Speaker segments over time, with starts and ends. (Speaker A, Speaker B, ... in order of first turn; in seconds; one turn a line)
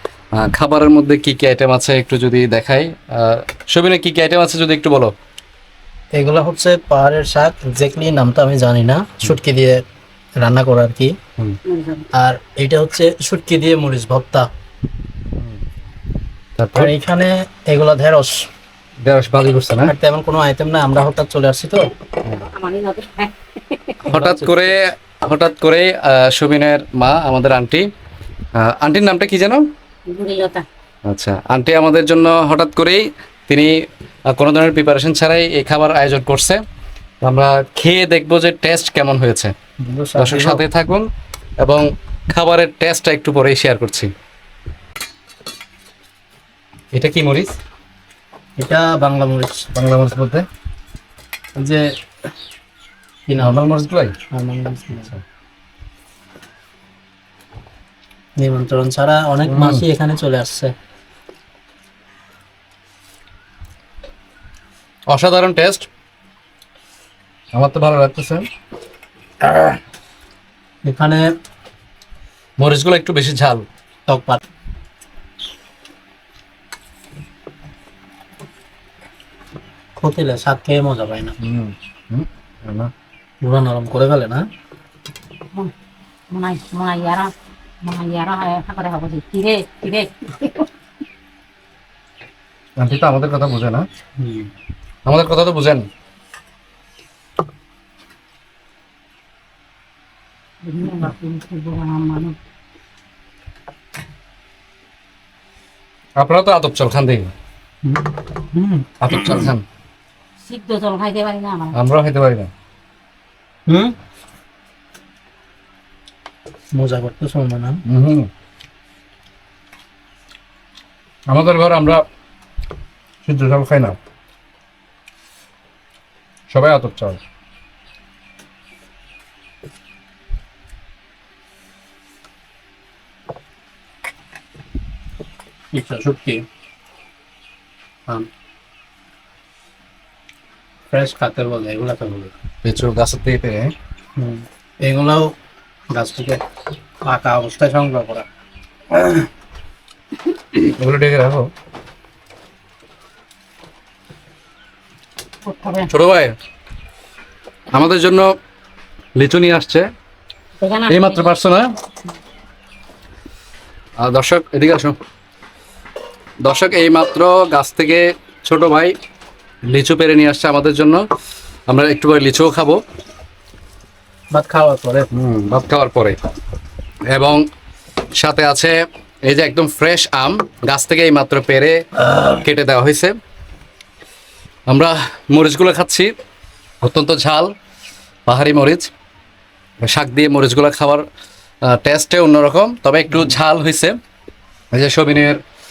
Speaker A: 0.3-5.1
Speaker B: 6.2-9.8
Speaker B: 10.4-11.1
Speaker C: 11.7-12.0
Speaker B: 12.1-14.5
Speaker A: 16.6-16.9
Speaker B: 16.8-18.5
Speaker A: 19.0-19.9
Speaker B: 19.8-21.9
Speaker C: 22.4-24.1
Speaker A: 24.0-27.9
Speaker B: 24.1-24.8
Speaker A: 28.6-29.6
Speaker C: 30.1-30.6
Speaker A: 31.1-33.7
Speaker A: 34.3-36.6
Speaker A: 37.2-39.5
Speaker B: 39.8-40.6
Speaker A: 40.2-41.1
Speaker A: 41.6-44.1
Speaker A: 46.9-47.5
Speaker B: 48.6-49.7
Speaker A: 49.7-50.5
Speaker B: 51.6-51.8
Speaker B: 53.3-53.6
Speaker A: 53.4-54.1
Speaker B: 54.3-55.1
Speaker B: 58.4-60.7
Speaker A: 59.5-59.9
Speaker A: 65.1-65.9
Speaker A: 67.5-68.5
Speaker B: 70.8-71.2
Speaker A: 72.6-73.7
Speaker B: 74.1-74.4
Speaker B: 80.0-81.3
Speaker A: 81.4-82.9
Speaker B: 83.4-84.4
Speaker C: 86.3-90.7
Speaker A: 92.8-93.8
Speaker B: 94.2-94.5
Speaker A: 95.0-95.9
Speaker C: 100.6-102.4
Speaker A: 106.2-107.3
Speaker B: 107.8-109.5
Speaker A: 109.0-109.6
Speaker C: 110.4-111.7
Speaker A: 111.7-112.5
Speaker B: 113.7-113.9
Speaker B: 116.7-117.8
Speaker A: 117.8-118.3
Speaker A: 121.3-122.0
Speaker A: 123.2-124.0
Speaker A: 126.5-127.2
Speaker B: 135.7-136.4
Speaker B: 140.9-142.3
Speaker A: 142.6-143.7
Speaker B: 144.2-145.3
Speaker B: 145.9-146.4
Speaker B: 147.1-148.2
Speaker B: 148.9-149.2
Speaker A: 150.6-151.5
Speaker C: 155.4-155.9
Speaker A: 155.8-156.3
Speaker A: 157.7-158.3
Speaker A: 159.2-159.9
Speaker C: 160.6-161.3
Speaker A: 160.9-161.7
Speaker A: 164.0-165.0
Speaker A: 166.4-168.9
Speaker A: 169.7-171.0
Speaker A: 171.7-172.8
Speaker B: 174.3-175.1
Speaker A: 175.1-176.2
Speaker A: 177.1-177.4
Speaker A: 178.2-183.1
Speaker A: 184.7-186.1
Speaker A: 186.8-187.5
Speaker A: 188.3-188.9
Speaker A: 189.8-191.0
Speaker A: 191.6-194.0
Speaker A: 194.7-195.4